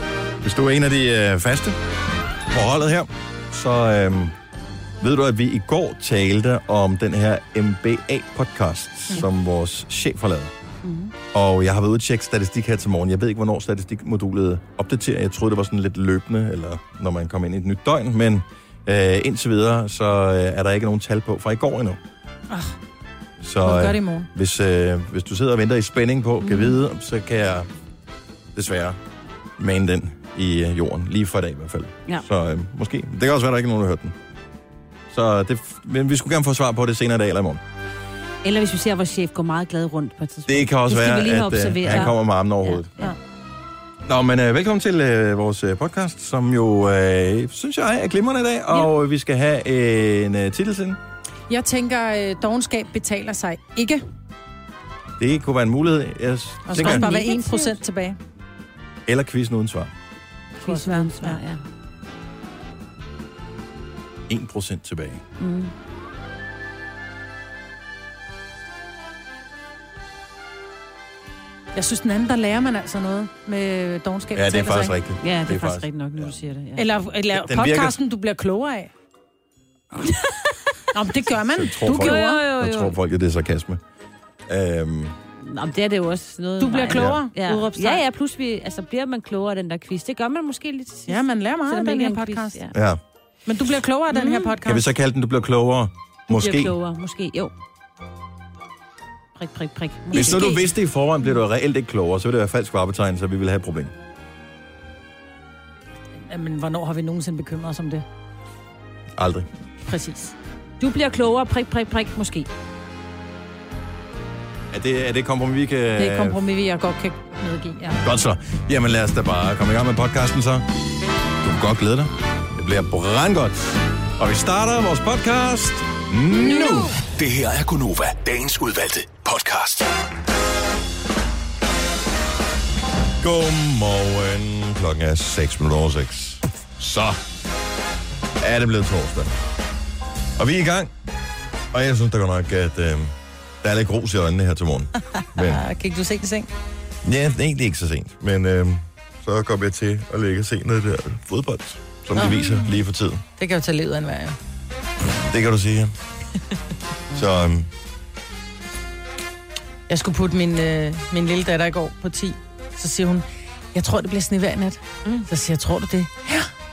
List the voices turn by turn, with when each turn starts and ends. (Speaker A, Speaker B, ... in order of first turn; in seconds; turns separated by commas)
Speaker A: 0.4-1.8, Speaker A: 2.5-4.3, Speaker A: 5.0-10.5, Speaker A: 11.3-22.0, Speaker B: 22.5-22.8, Speaker A: 23.4-27.7, Speaker B: 23.6-24.3, Speaker A: 28.5-29.0, Speaker A: 29.6-34.1, Speaker A: 35.1-37.6, Speaker C: 38.4-43.1, Speaker A: 40.5-42.9, Speaker A: 44.1-51.0, Speaker B: 51.5-54.0, Speaker A: 55.2-57.1, Speaker B: 56.7-58.2, Speaker C: 56.8-57.8, Speaker A: 59.1-59.9, Speaker B: 60.6-61.4, Speaker C: 60.6-61.6, Speaker A: 64.3-65.2, Speaker C: 65.4-65.7, Speaker B: 71.8-75.0, Speaker A: 74.3-76.3, Speaker C: 75.2-76.9, Speaker B: 76.8-78.9, Speaker A: 77.3-78.0, Speaker C: 80.0-80.5, Speaker B: 80.9-82.4, Speaker A: 81.3-83.8, Speaker C: 81.8-83.0, Speaker A: 84.5-85.2, Speaker C: 85.4-92.8, Speaker B: 86.6-88.0, Speaker A: 86.9-87.2, Speaker B: 91.1-92.6, Speaker A: 92.7-93.0, Speaker B: 93.5-94.8, Speaker C: 94.1-94.5, Speaker A: 94.7-96.7, Speaker C: 96.3-97.5, Speaker C: 99.4-100.5, Speaker B: 100.1-100.6, Speaker A: 100.1-103.9, Speaker B: 106.3-108.0, Speaker A: 109.2-109.5, Speaker B: 109.8-110.3, Speaker C: 110.8-112.5, Speaker A: 114.7-116.4, Speaker B: 116.0-118.0, Speaker A: 118.0-120.7, Speaker A: 121.4-126.9, Speaker B: 126.5-126.8, Speaker D: 127.1-129.9, Speaker A: 133.2-137.2, Speaker A: 138.4-139.3, Speaker A: 140.4-140.9, Speaker A: 141.7-145.7, Speaker B: 145.4-146.5, Speaker A: 147.0-153.2, Speaker B: 152.2-152.7, Speaker B: 153.4-154.4, Speaker A: 155.1-155.9, Speaker A: 157.1-157.7, Speaker B: 159.9-166.5